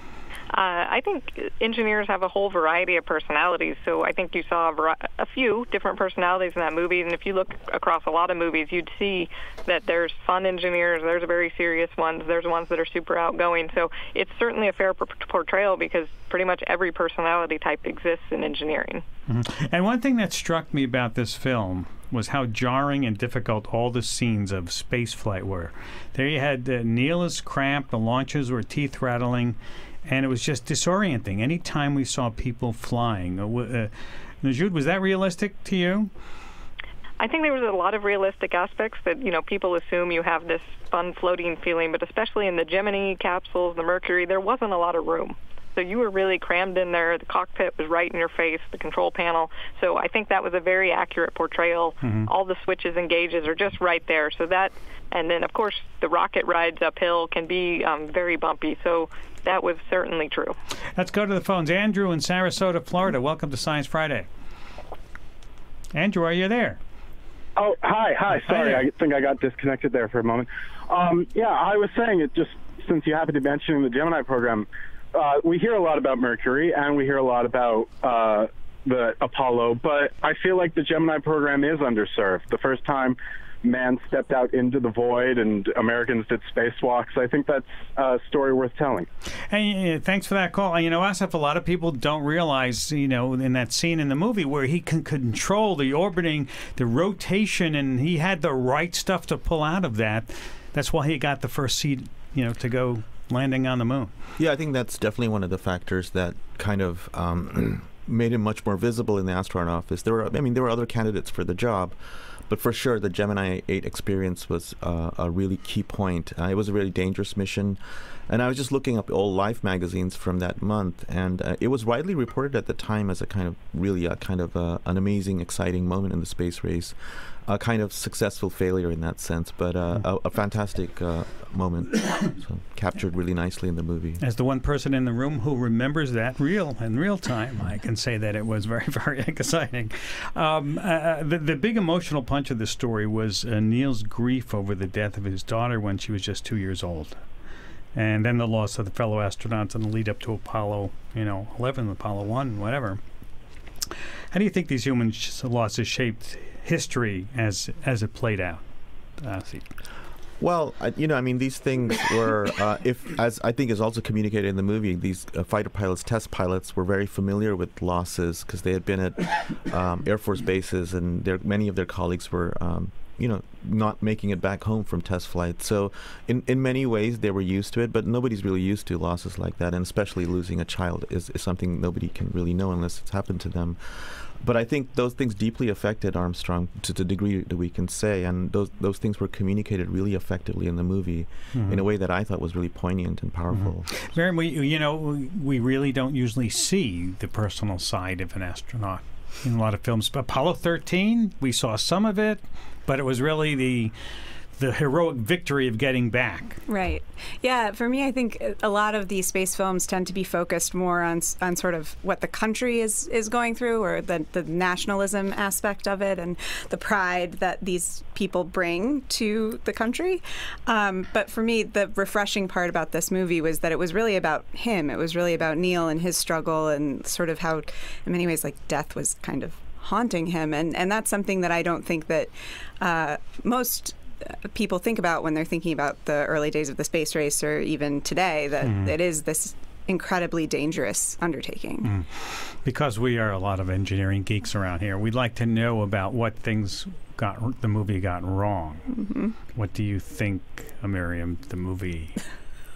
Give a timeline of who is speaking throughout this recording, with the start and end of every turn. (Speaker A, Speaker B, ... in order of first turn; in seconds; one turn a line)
Speaker A: 0.5-19.0
Speaker B: 19.3-36.1
Speaker A: 37.2-60.5
Speaker B: 52.0-52.3
Speaker B: 61.0-64.3
Speaker B: 65.9-66.8
Speaker C: 67.6-89.1
Speaker B: 68.3-68.9
Speaker B: 89.5-104.1
Speaker D: 104.4-134.2
Speaker B: 134.2-147.2
Speaker B: 147.9-153.0
Speaker B: 154.3-158.6
Speaker B: 159.2-159.7
Speaker D: 160.4-193.9
Speaker B: 191.5-191.8
Speaker B: 193.5-203.9
Speaker B: 204.6-206.6
Speaker E: 206.7-241.9
Speaker B: 238.6-238.9
Speaker B: 241.8-248.9
Speaker E: 248.9-249.3
Speaker B: 249.5-252.2